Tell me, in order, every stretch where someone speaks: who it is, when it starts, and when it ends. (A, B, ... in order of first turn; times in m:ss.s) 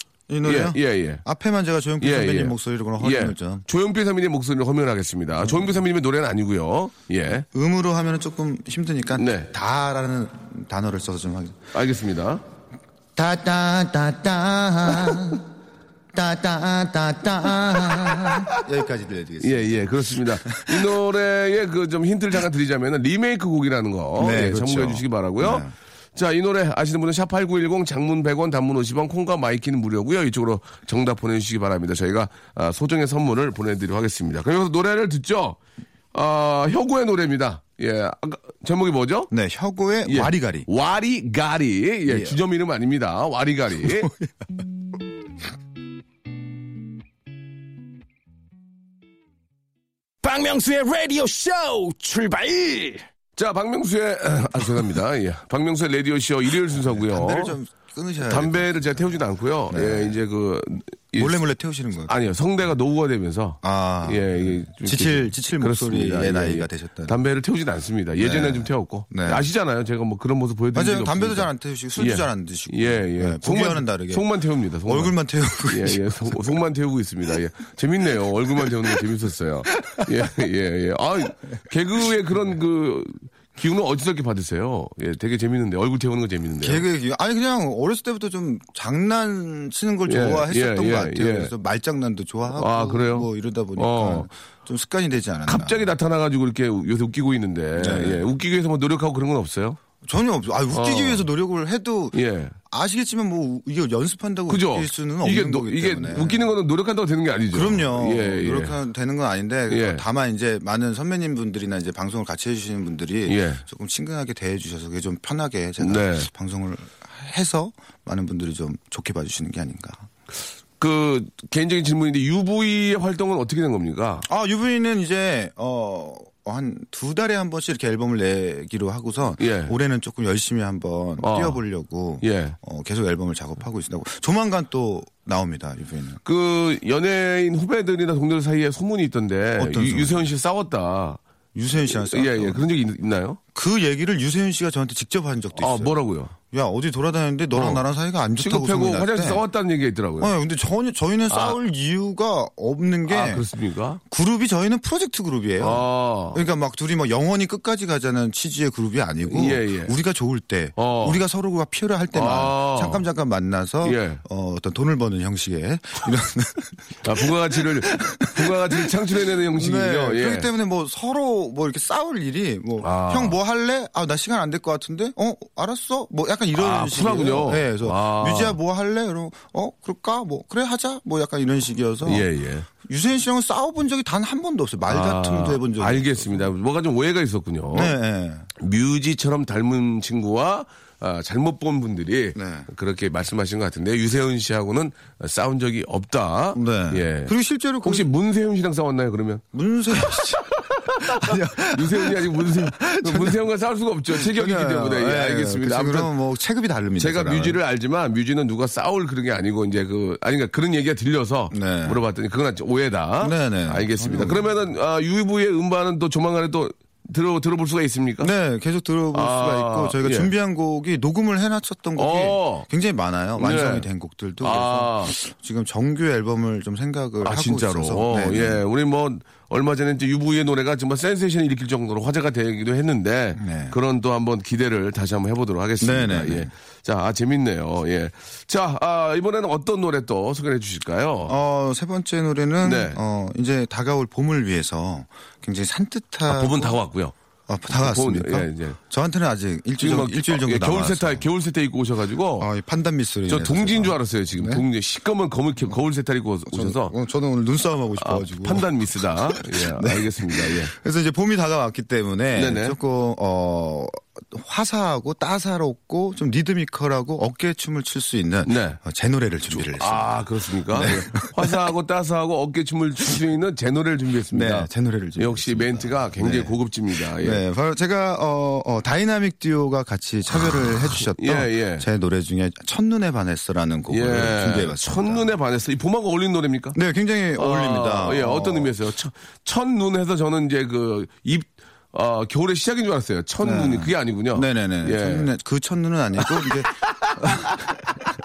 0:00.3-0:03.6 A
0:00.4-0:01.2 B
0:02.0-0:07.5 B
0:07.5-0:11.7 A
0:09.2-0:09.5 B
0:11.7-0:12.4 B
0:13.2-0:15.4 A
0:16.1-0:20.9 A
0:18.2-0:18.6 B
0:19.4-0:35.6 B
0:24.2-0:25.7 A
0:36.1-0:39.3 B
0:39.3-0:40.7 A
0:40.1-0:44.1 B
0:42.1-0:42.4 A
0:43.9-0:44.1 A
0:50.2-0:53.0 C
0:53.4-0:57.6 B
0:56.7-0:59.0 A
0:58.2-1:01.4 B
0:59.7-1:00.2 A
1:01.2-1:02.1 A
1:02.1-1:15.2 B
1:03.6-1:07.2 A
1:08.2-1:09.5 A
1:10.7-1:14.3 A
1:14.9-1:16.4 A
1:15.7-1:26.8 B
1:26.6-1:35.9 A
1:30.1-1:31.5 B
1:32.6-1:34.3 B
1:35.5-1:39.8 B
1:37.8-1:38.2 A
1:40.0-1:46.5 A
1:40.7-1:41.2 B
1:42.1-1:42.6 B
1:44.5-1:48.8 B
1:47.5-2:00.1 A
1:49.7-1:50.0 B
1:53.3-1:53.6 B
1:55.8-1:56.3 B
2:00.8-2:04.3 B
2:04.2-2:16.2 A
2:09.4-2:09.7 B
2:11.2-2:11.6 B
2:12.2-2:12.6 B
2:16.2-2:21.2 B
2:19.6-2:20.3 A
2:21.6-2:22.6 A
2:21.9-2:23.4 B
2:23.6-2:29.4 A
2:25.6-2:26.3 B
2:27.5-2:27.8 B
2:28.4-2:30.3 B
2:30.2-2:33.5 A
2:31.3-2:31.6 B
2:33.1-2:34.0 B
2:34.1-2:47.0 A
2:35.6-2:36.4 B
2:39.3-2:39.9 B
2:40.8-2:41.2 B
2:42.1-2:43.1 B
2:43.8-2:44.2 B
2:47.0-2:50.5 B
2:47.5-3:02.3 A
2:52.8-2:53.4 B
2:56.5-2:58.6 B
3:02.0-3:02.7 B
3:02.8-3:06.5 A
3:04.9-3:08.0 B
3:07.7-3:08.5 A
3:08.6-3:17.3 B
3:12.4-3:12.7 A
3:16.5-3:18.1 A
3:17.8-3:19.4 B
3:19.5-3:23.4 A
3:20.8-3:26.1 B
3:24.1-3:27.6 A
3:27.0-3:38.3 B
3:31.5-3:32.0 A
3:33.2-3:34.5 A
3:38.2-3:48.6 A
3:39.1-3:40.3 B
3:42.0-3:42.7 B
3:43.4-3:43.9 B
3:44.4-3:45.1 B
3:47.2-4:01.4 B
3:53.4-3:53.8 A
3:55.8-3:56.5 A
4:01.2-4:06.8 A
4:02.6-4:03.0 B
4:06.3-4:07.2 B
4:07.5-4:11.2 A
4:07.7-4:08.8 B
4:09.8-4:12.5 B
4:12.4-4:14.6 A
4:13.3-4:16.9 B
4:16.5-4:31.6 A
4:18.0-4:20.7 B
4:22.4-4:22.8 B
4:28.4-4:28.8 B
4:29.5-4:37.4 B
4:34.3-4:36.5 A
4:37.2-4:45.3 A
4:41.1-4:41.9 B
4:43.9-4:46.8 B
4:46.7-4:48.8 A
4:47.4-4:55.3 B
4:53.4-4:57.9 A
4:56.2-4:57.8 B